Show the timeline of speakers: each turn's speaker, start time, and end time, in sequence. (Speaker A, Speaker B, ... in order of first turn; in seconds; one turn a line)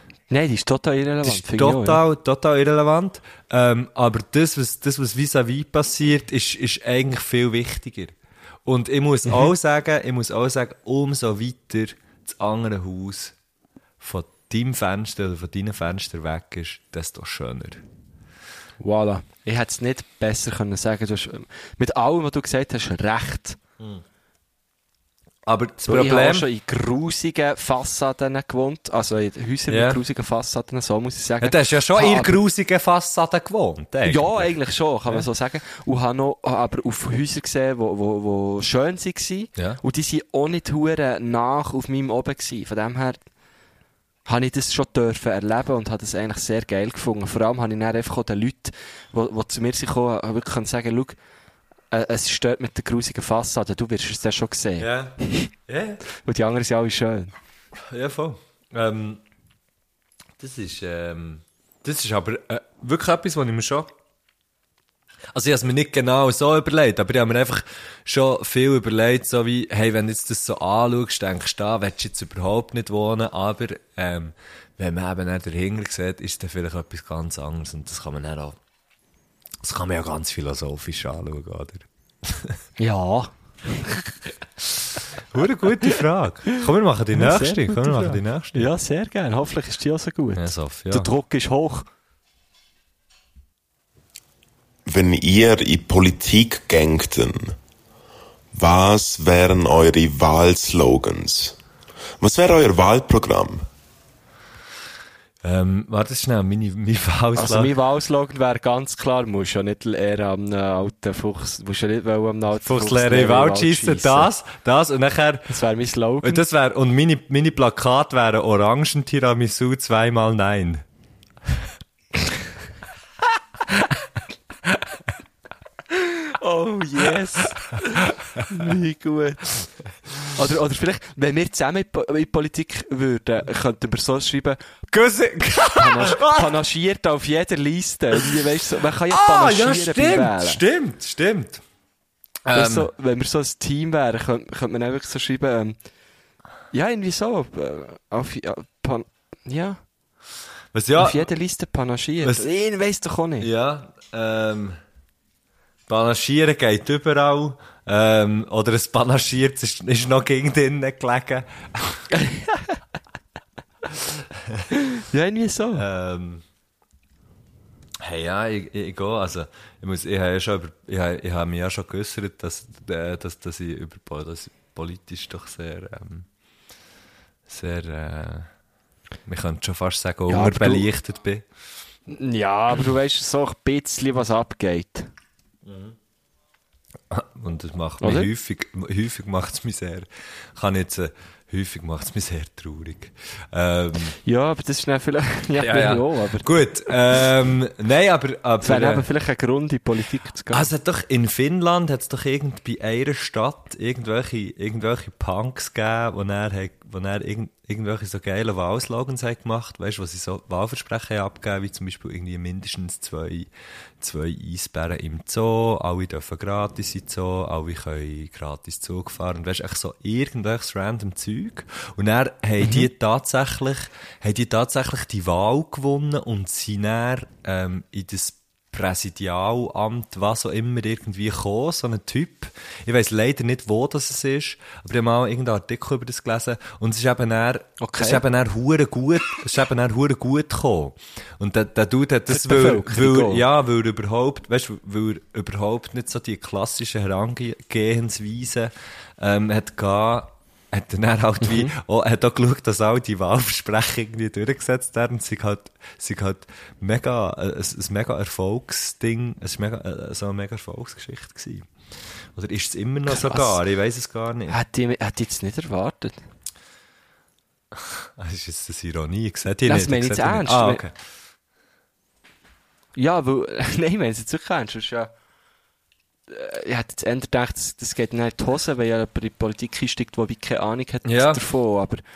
Speaker A: 0.3-2.0
Speaker B: 1.2-8.1
Speaker B: 8.6-13.3
Speaker B: 14.0-17.8
Speaker A: 18.8-23.6
Speaker B: 25.4-26.5
Speaker A: 25.8-32.4
Speaker B: 29.7-30.0
Speaker B: 31.4-34.5
Speaker A: 34.0-43.2
Speaker A: 44.2-51.1
Speaker A: 51.9-55.5
Speaker B: 54.8-56.0
Speaker A: 56.2-57.3
Speaker B: 57.9-59.2
Speaker B: 60.4-63.9
Speaker B: 65.3-78.6
Speaker B: 79.6-82.6
Speaker A: 82.8-84.1
Speaker B: 85.3-88.7
Speaker A: 87.1-91.8
Speaker B: 90.3-91.1
Speaker C: 94.8-97.5
Speaker C: 98.5-101.5
Speaker C: 102.2-103.7
Speaker B: 105.4-107.7
Speaker A: 107.3-114.3
Speaker B: 112.5-115.5
Speaker A: 115.5-116.4
Speaker B: 116.2-120.8
Speaker A: 126.0-129.5
Speaker A: 130.3-134.6
Speaker B: 134.9-136.5
Speaker A: 135.7-140.6
Speaker B: 139.1-141.6
Speaker B: 142.4-142.9
Speaker A: 142.5-145.8
Speaker A: 146.7-149.8
Speaker B: 150.7-151.3
Speaker A: 151.0-153.5
Speaker B: 152.2-152.4
Speaker B: 153.4-154.8
Speaker B: 155.9-162.0
Speaker A: 162.1-162.7
Speaker A: 164.7-165.8
Speaker B: 165.7-166.4
Speaker B: 168.0-176.3
Speaker B: 177.5-178.5
Speaker B: 179.2-181.4
Speaker A: 180.3-180.9
Speaker A: 182.1-185.1
Speaker B: 185.6-185.9
Speaker B: 187.1-194.2
Speaker A: 188.0-188.3
Speaker A: 194.2-196.5
Speaker B: 195.6-199.1
Speaker A: 198.6-200.7
Speaker B: 200.5-213.5
Speaker B: 214.0-261.7
Speaker A: 222.6-222.9
Speaker A: 237.8-238.2
Speaker A: 242.3-243.4
Speaker A: 251.4-251.7
Speaker B: 262.3-264.6
Speaker A: 263.1-263.6
Speaker A: 264.5-266.2
Speaker B: 267.7-270.9
Speaker A: 269.6-270.8
Speaker A: 272.9-275.1
Speaker A: 276.3-282.0
Speaker B: 281.0-281.4